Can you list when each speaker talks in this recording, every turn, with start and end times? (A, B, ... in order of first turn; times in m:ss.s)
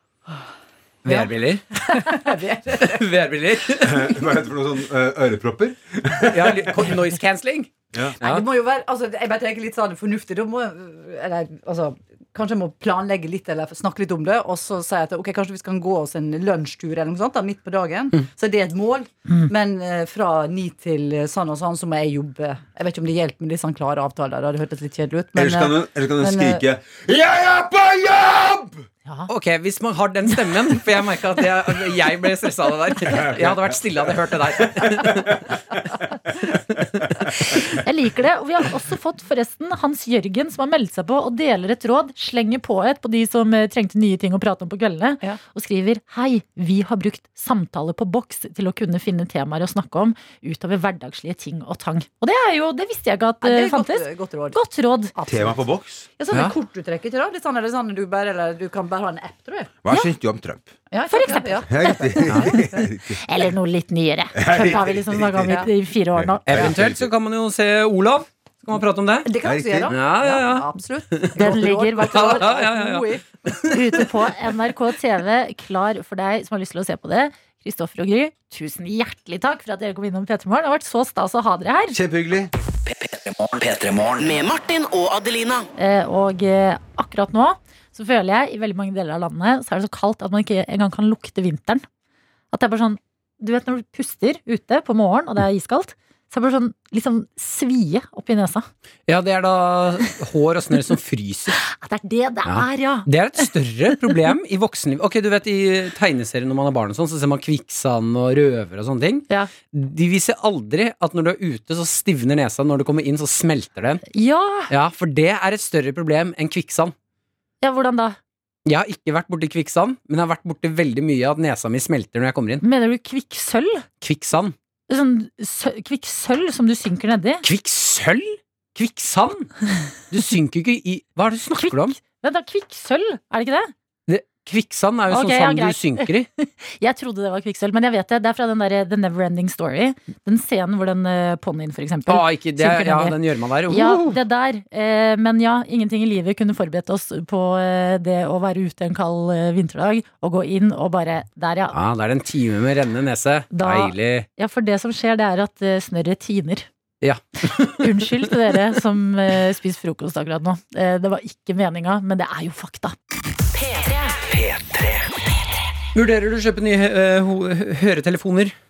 0:01.0-0:01.6 A
0:01.1-0:03.1 B
0:02.8-0:04.2 A
0:03.8-0:06.9 C
0:06.3-0:08.4 A
0:07.9-0:08.2 C
0:08.2-0:26.6 B
0:25.4-0:28.8 C
0:29.3-0:35.5 A
0:33.0-0:35.6 C
0:37.5-0:55.1 D
0:53.4-0:54.6 B
0:55.2-0:55.6 B
0:55.3-0:56.1 C
0:56.2-0:59.8 B
0:59.8-1:00.7 C
1:00.9-1:02.8 B
1:01.1-1:02.6 D
1:01.7-1:03.2 C
1:02.3-1:02.6 A
1:03.2-1:06.7 D
1:04.4-1:05.6 C
1:06.1-1:07.1 C
1:06.5-1:09.3 A
1:09.2-1:13.2 B
1:09.4-1:09.9 C
1:09.9-1:10.7 A
1:11.4-1:12.5 D
1:12.1-1:13.7 A
1:13.7-1:22.0 D
1:21.9-1:22.5 C
1:22.9-1:25.7 E
1:25.8-1:31.8 D
1:32.5-1:38.7 D
1:39.1-1:41.6 A
1:41.6-1:43.5 D
1:42.4-1:54.0 A
1:54.1-1:54.7 D
1:54.7-1:57.0 A
1:57.6-1:58.2 D
1:58.7-2:02.6 A
2:02.6-2:03.8 D
2:04.0-2:04.6 A
2:04.9-2:07.4 D
2:07.4-2:09.5 A
2:10.1-2:12.0 A
2:11.6-2:13.7 D
2:14.1-2:16.3 A
2:15.1-2:31.8 D
2:22.1-2:24.2 A
2:31.7-2:34.3 A
2:33.5-2:36.7 D
2:37.0-2:38.6 A
2:37.8-2:43.0 D
2:43.5-2:45.2 E
2:45.9-2:48.6 A